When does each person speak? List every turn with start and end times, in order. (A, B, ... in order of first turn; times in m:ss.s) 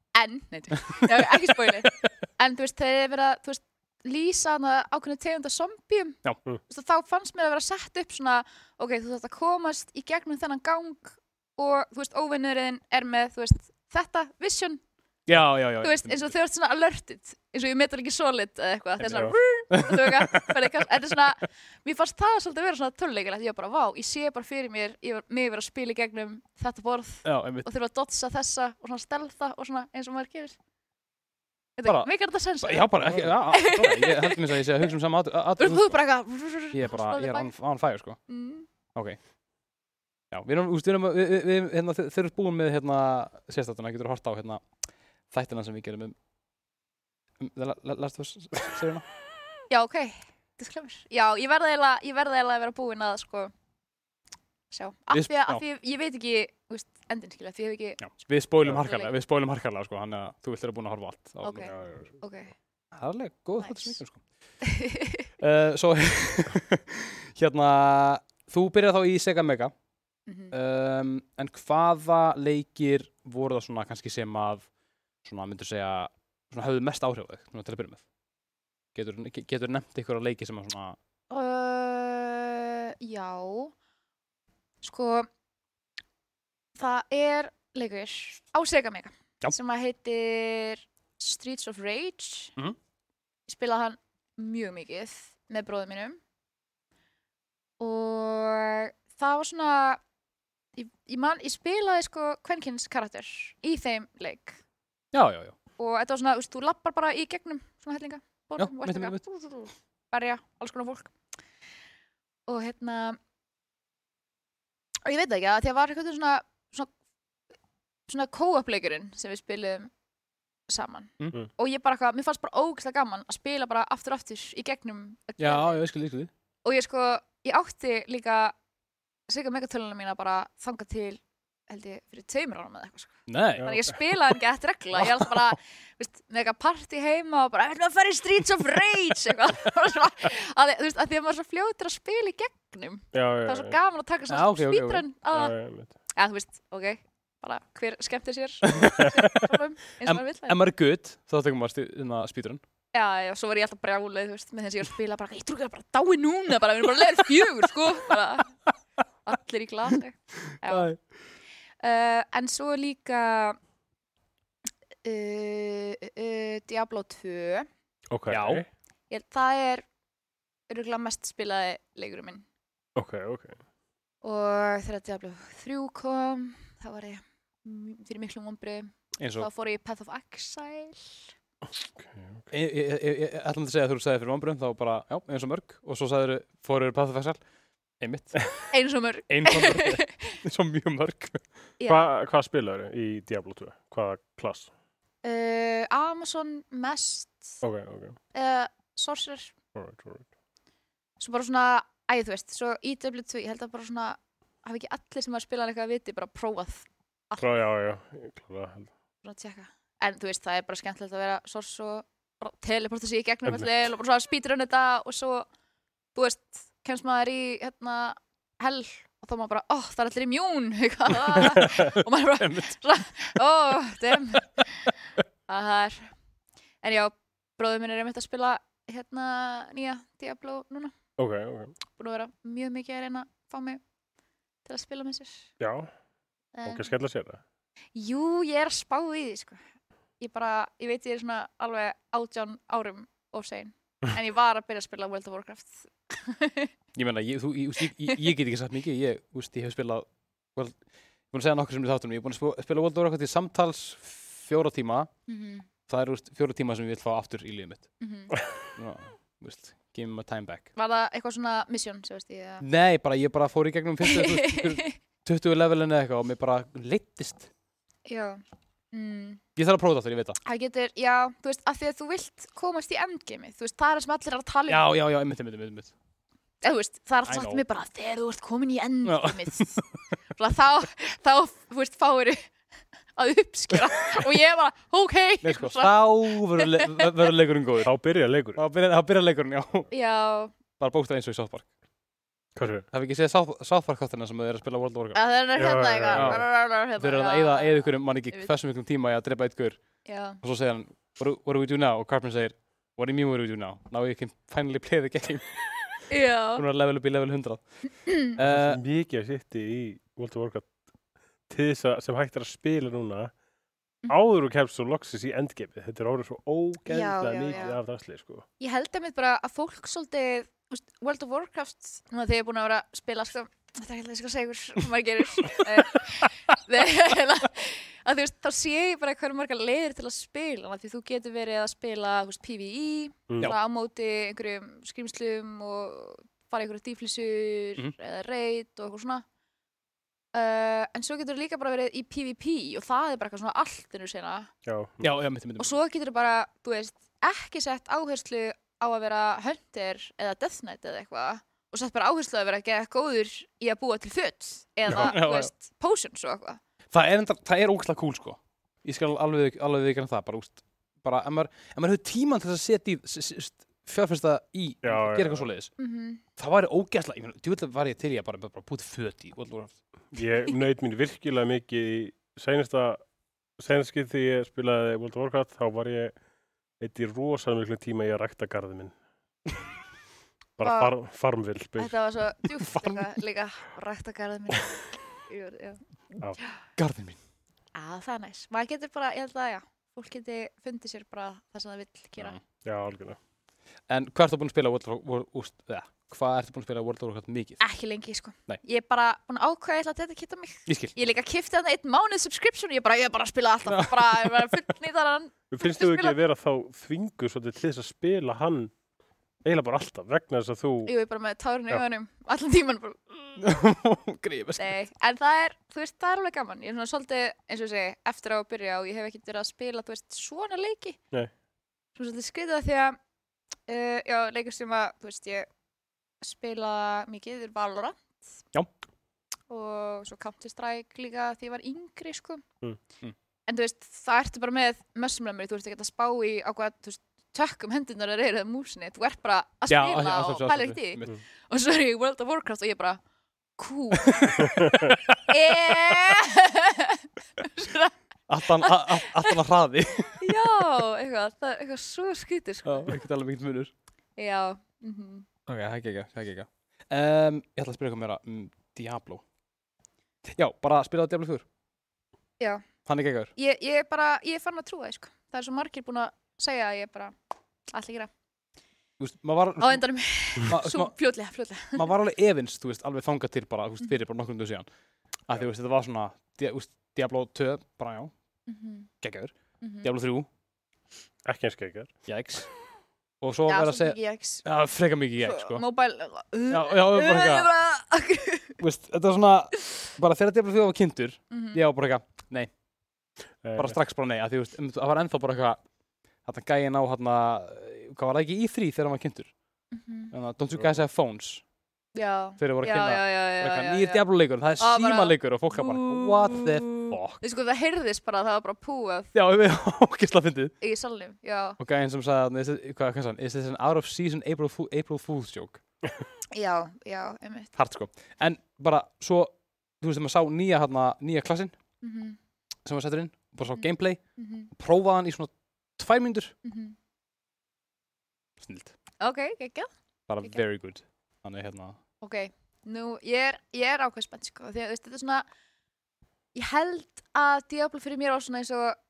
0:00.1-0:14.8 A
0:00.9-0:02.1 B
0:15.3-0:16.3 B
0:15.8-0:30.6 A
0:19.0-0:19.3 C
0:19.7-0:20.6 B
0:27.2-0:27.6 B
0:31.8-0:34.8 A
0:31.8-0:36.0 B
0:33.1-0:33.9 C
0:35.6-0:37.5 A
0:36.7-0:38.2 B
0:38.3-0:38.7 A
0:40.3-0:44.7 B
0:45.3-0:46.1 B
0:47.4-0:49.0 B
0:49.7-0:53.5 A
0:54.7-0:58.0 A
0:55.1-0:55.6 B
0:58.0-1:01.7 B
0:58.8-0:59.1 A
1:01.4-1:02.5 A
1:01.6-1:02.2 C
1:02.9-1:04.2 B
1:03.6-1:04.0 A
1:04.6-1:05.3 A
1:05.4-1:09.7 B
1:10.3-1:10.5 A
1:10.5-1:14.7 B
1:15.2-1:18.0 B
1:18.9-1:21.0 B
1:21.3-1:23.7 A
1:24.8-1:25.3 A
1:26.8-1:32.5 A
1:33.5-1:36.2 A
1:37.8-1:40.0 A
1:40.8-1:44.6 A
1:45.1-1:45.5 B
1:45.8-1:51.1 A
1:48.6-1:49.2 B
1:52.5-1:53.2 A
1:55.0-1:56.9 A
1:58.1-1:59.9 A
2:00.7-2:05.8 A
2:05.4-2:06.3 B
2:06.6-2:08.5 A
2:09.3-2:30.6 A
2:13.3-2:14.0 B
2:13.6-2:13.8 C
2:15.0-2:15.3 B
2:23.1-2:23.8 C
2:24.3-2:25.0 B
2:25.3-2:25.9 C
2:28.7-2:32.6 B
2:32.9-2:38.6 A
2:39.2-2:40.9 A
2:40.6-2:41.0 B
2:41.8-2:43.6 A
2:45.0-2:47.7 A
2:48.1-2:48.6 C
2:48.3-2:48.6 B
2:49.1-2:49.9 A
2:50.7-2:52.4 A
2:53.0-2:53.6 C
2:54.2-3:01.3 A
2:59.2-2:59.5 B
3:02.0-3:02.4 C
3:02.5-3:07.4 B
3:08.0-3:08.7 B
3:08.7-3:10.4 A
3:09.3-3:11.5 B
3:11.8-3:12.0 A
3:11.9-3:14.7 C
3:15.2-3:17.6 A
3:17.6-3:18.2 C
3:18.3-3:19.5 A
3:19.7-3:20.3 C
3:21.2-3:27.5 A
3:27.4-3:28.9 C
3:29.2-3:35.5 A
3:36.1-3:44.9 A
3:42.4-3:42.7 B
3:45.5-3:46.1 A
3:46.8-3:50.9 A
3:51.2-3:51.8 C
3:51.9-3:53.8 A
3:54.6-3:55.5 A
3:55.6-3:55.9 C
3:56.5-3:56.9 A
3:56.6-3:57.4 C
3:57.9-3:59.6 A
4:00.2-4:06.7 A
4:06.9-4:15.1 B
4:15.3-4:15.7 A
4:15.9-4:17.9 B
4:18.0-4:18.3 A
4:18.6-4:20.7 B
4:20.7-4:22.6 A
4:22.6-4:27.5 B
4:24.0-4:25.0 A
4:28.0-4:29.4 A
4:29.6-4:30.4 B
4:30.4-4:34.8 A
4:34.7-4:35.9 B
4:36.6-4:42.5 A
4:37.3-4:37.6 B
4:39.0-4:39.8 B
4:43.1-4:47.1 A
4:45.4-4:47.9 B
4:47.8-4:48.6 C
4:48.5-4:49.9 B
4:49.9-4:50.5 A
4:50.8-4:51.7 B
4:52.6-4:52.9 C
4:52.9-4:55.2 B
4:55.1-4:58.5 A
4:55.6-4:56.4 C
4:56.1-5:08.8 B
5:00.0-5:00.4 A
5:06.1-5:06.6 A
5:08.4-5:10.9 C
5:11.4-5:13.3 C
5:14.0-5:18.4 C
5:16.9-5:17.8 A
5:18.6-5:39.2 A
5:40.3-5:44.5 A
5:44.6-5:45.1 C
5:45.0-5:45.8 B
5:45.6-5:56.6 A
5:54.9-5:55.5 B
5:56.9-6:05.7 B
6:04.8-6:05.5 C
6:05.8-6:06.2 A
6:06.4-6:09.8 B
6:10.1-6:13.0 C
6:13.6-6:16.2 C
6:16.8-6:19.0 C
6:20.6-6:22.0 C
6:20.6-6:20.9 A
6:21.8-6:26.6 A
6:22.6-6:23.1 B
6:26.8-6:27.2 B
6:27.7-6:32.4 A
6:32.6-6:33.2 C
6:33.9-6:37.6 B
6:37.6-6:46.2 A
6:40.7-6:40.9 B
6:43.7-6:44.3 B
6:45.5-6:48.7 C
6:49.4-6:50.9 C
6:50.8-6:53.4 A
6:53.4-6:54.7 B
6:54.6-7:01.0 A
7:02.0-7:03.0 A
7:03.7-7:05.5 A
7:06.2-7:08.2 A
7:09.5-7:12.4 A
7:13.5-7:23.0 A
7:19.7-7:21.1 B
7:23.6-7:29.4 A
7:28.3-7:30.2 B
7:30.2-7:32.9 A
7:32.6-7:33.7 B
7:34.2-7:35.3 A
7:35.5-7:39.2 B
7:40.2-7:41.4 B
7:42.4-7:42.7 A
7:42.8-7:43.3 B
7:43.3-7:47.1 A
7:47.7-7:48.1 A
7:49.0-7:51.0 B
7:49.6-7:51.9 A
7:51.6-7:54.7 B
7:55.2-7:58.1 B
7:58.5-7:58.9 A
7:59.0-8:00.3 B
7:59.6-7:59.9 A
8:01.2-8:02.0 C
8:02.1-8:02.5 B
8:03.2-8:05.6 B
8:03.5-8:04.4 A
8:05.2-8:08.6 A
8:06.5-8:07.5 B
8:08.6-8:12.5 B
8:11.3-8:11.6 A
8:13.4-8:13.8 C
8:13.5-8:15.6 B
8:16.2-8:19.3 B
8:19.7-8:20.1 A
8:20.1-8:21.4 B
8:20.5-8:20.8 C
8:21.9-8:24.0 A
8:22.4-8:27.2 B
8:24.6-8:29.1 A
8:29.1-8:30.5 B
8:30.6-8:31.6 A
8:31.6-8:35.6 B
8:36.3-8:37.5 A
8:37.6-8:41.6 B
8:41.8-8:42.2 A
8:42.6-8:46.3 B
8:43.5-8:44.5 A
8:46.4-8:46.7 A
8:48.4-8:48.8 B
8:49.0-8:49.7 A
8:50.1-8:51.8 B
8:52.0-8:55.3 A
8:56.3-8:58.8 A